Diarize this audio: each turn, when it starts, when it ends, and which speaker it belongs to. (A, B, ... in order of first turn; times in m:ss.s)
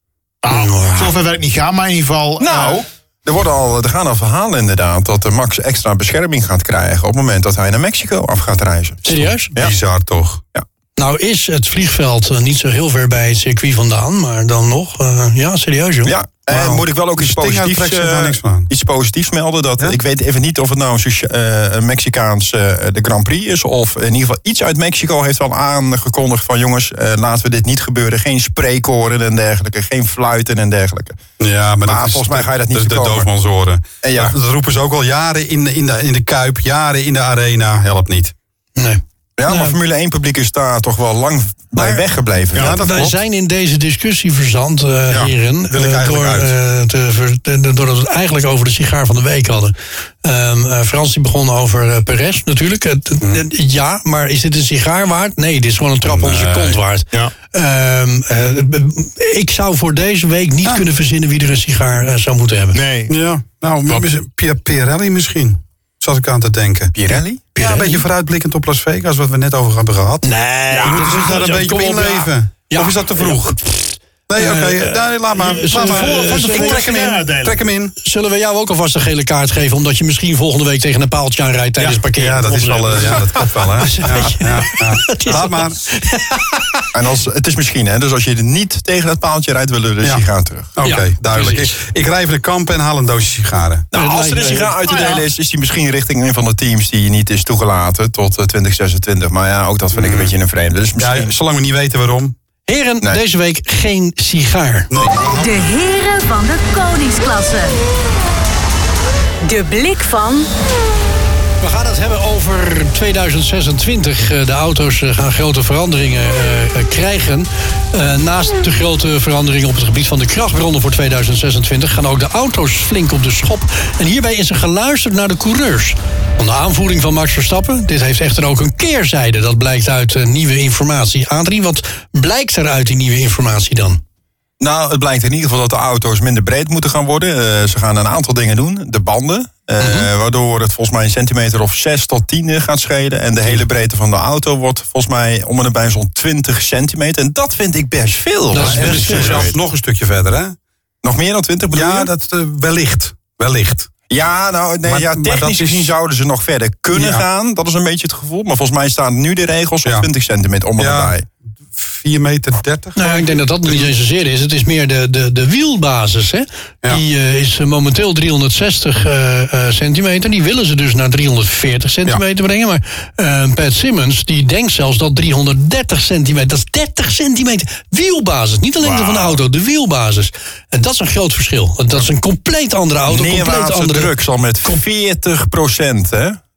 0:00.4-0:02.8 A
0:00.5-0:01.2 B
0:02.4-0:09.7 C
0:09.0-0:09.5 B
0:09.5-0:10.4 D
0:11.0-0:16.1 B
0:16.0-0:31.2 C
0:16.5-0:18.7 D
0:31.4-0:38.3 D
0:31.8-0:33.3 C
0:34.0-0:34.4 C
0:38.8-0:39.8 B
0:39.4-0:43.1 C
0:41.7-0:42.0 B
0:42.6-0:43.1 D
0:42.6-1:02.8 B
0:45.1-0:46.5 D
0:56.0-0:56.8 D
1:02.7-1:03.1 A
1:03.1-1:06.9 D
1:06.9-1:07.4 C
1:07.5-1:08.0 B
1:07.6-1:13.6 D
1:10.2-1:16.8 B
1:14.3-1:17.9 D
1:15.4-1:17.6 A
1:18.0-1:26.4 B
1:22.0-1:25.8 D
1:26.9-1:30.7 C
1:30.8-1:33.9 D
1:30.8-1:31.7 B
1:33.9-1:41.3 C
1:33.9-1:34.8 B
1:34.9-1:35.2 A
1:39.9-1:40.3 D
1:41.0-1:42.3 D
1:42.7-1:44.9 B
1:44.9-1:45.7 D
1:45.4-1:47.8 E
1:49.4-1:50.5 E
1:51.6-2:14.0 B
2:14.6-2:29.6 C
2:19.8-2:20.1 B
2:28.5-2:29.5 B
2:28.5-2:30.6 D
2:31.0-2:32.1 C
2:31.7-2:33.9 D
2:34.1-2:41.2 C
2:34.8-2:35.9 D
2:36.9-2:37.2 D
2:40.8-2:41.2 D
2:41.7-2:43.9 D
2:43.0-3:04.1 B
2:58.8-2:59.4 C
3:03.1-3:06.4 C